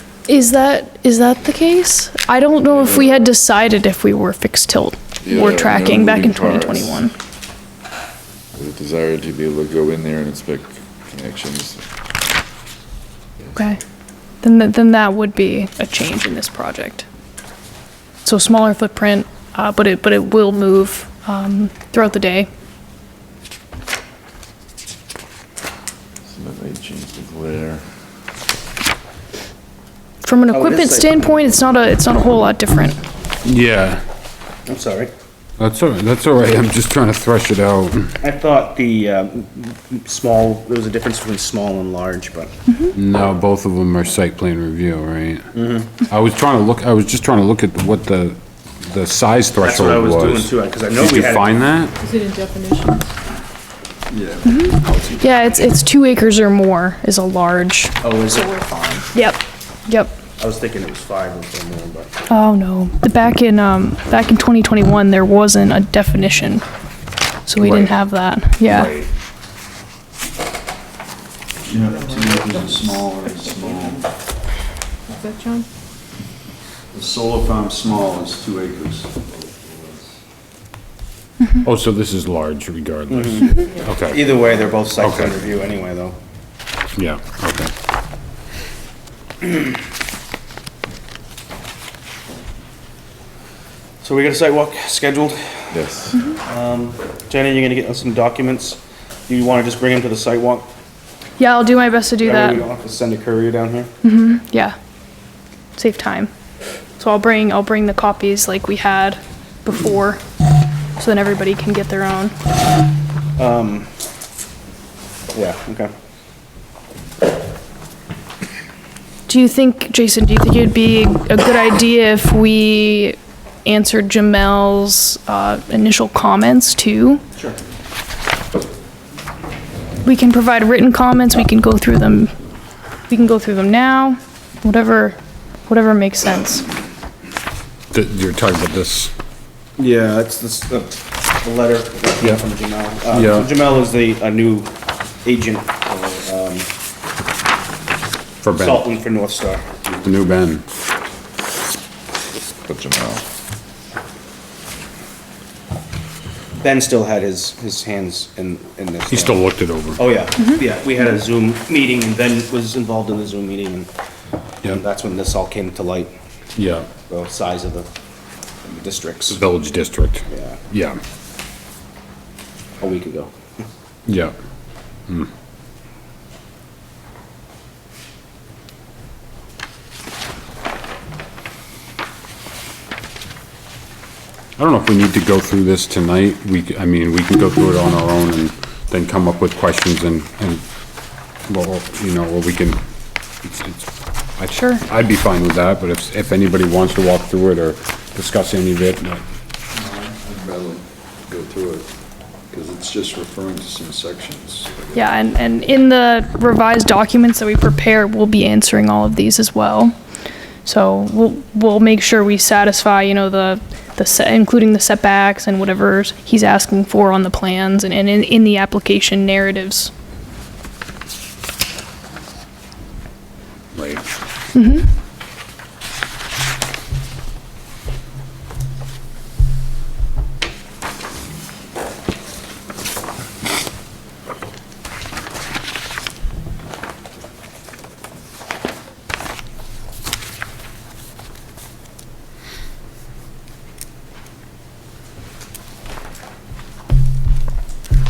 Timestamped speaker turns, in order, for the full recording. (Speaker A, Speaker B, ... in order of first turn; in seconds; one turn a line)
Speaker A: 0.3-7.1
Speaker B: 5.2-7.0
Speaker B: 8.5-11.8
Speaker A: 13.5-13.8
Speaker A: 14.4-17.1
Speaker A: 18.2-22.5
Speaker B: 26.3-27.8
Speaker A: 30.2-33.0
Speaker C: 30.5-31.4
Speaker D: 33.5-34.0
Speaker C: 34.7-35.1
Speaker D: 35.6-38.1
Speaker C: 38.2-42.5
Speaker D: 42.9-45.5
Speaker C: 45.5-45.9
Speaker D: 46.0-48.4
Speaker D: 48.9-52.0
Speaker C: 49.6-51.6
Speaker E: 52.0-53.1
Speaker F: 54.1-55.2
Speaker A: 54.5-57.9
Speaker C: 58.0-59.1
Speaker A: 59.1-60.1
Speaker C: 60.4-62.1
Speaker A: 62.3-66.6
Speaker A: 67.5-68.9
Speaker D: 67.6-67.9
Speaker D: 68.7-69.1
Speaker F: 71.7-74.1
Speaker E: 71.9-74.0
Speaker E: 75.1-75.7
Speaker F: 76.9-80.0
Speaker D: 81.6-84.3
Speaker C: 83.1-86.2
Speaker D: 85.0-85.4
Speaker D: 87.0-87.7
Speaker C: 94.0-95.8
Speaker B: 95.7-96.1
Speaker C: 96.4-100.7
Speaker A: 101.4-102.6
Speaker C: 102.2-103.9
Speaker A: 104.0-104.8
Speaker A: 105.8-106.3
Speaker A: 107.0-110.2
Speaker A: 111.0-112.3
Speaker C: 113.4-113.9
Speaker C: 115.3-115.9
Speaker A: 119.3-127.2
Speaker A: 130.1-132.3
Speaker A: 133.1-136.7
Speaker D: 137.9-139.1
Speaker C: 139.8-144.7
Speaker D: 143.1-143.5
Speaker C: 145.2-146.7
Speaker D: 148.4-148.9
Speaker C: 148.5-149.9
Speaker D: 150.0-150.6
Speaker B: 152.7-153.2
Speaker C: 156.6-159.4
Speaker D: 159.1-160.1
Speaker C: 160.0-163.9
Speaker C: 164.6-166.1
Speaker D: 166.6-166.9
Speaker C: 167.1-167.9
Speaker C: 168.7-169.4
Speaker D: 169.3-171.0
Speaker C: 170.3-170.6
Speaker C: 172.8-173.3
Speaker D: 174.1-174.3
Speaker D: 184.6-190.6
Speaker D: 191.5-192.8
Speaker D: 193.4-199.2
Speaker A: 194.5-194.8
Speaker F: 199.7-201.9
Speaker F: 202.5-205.1
Speaker A: 204.9-209.9
Speaker A: 210.7-219.9
Speaker D: 223.8-224.0
Speaker A: 224.5-224.9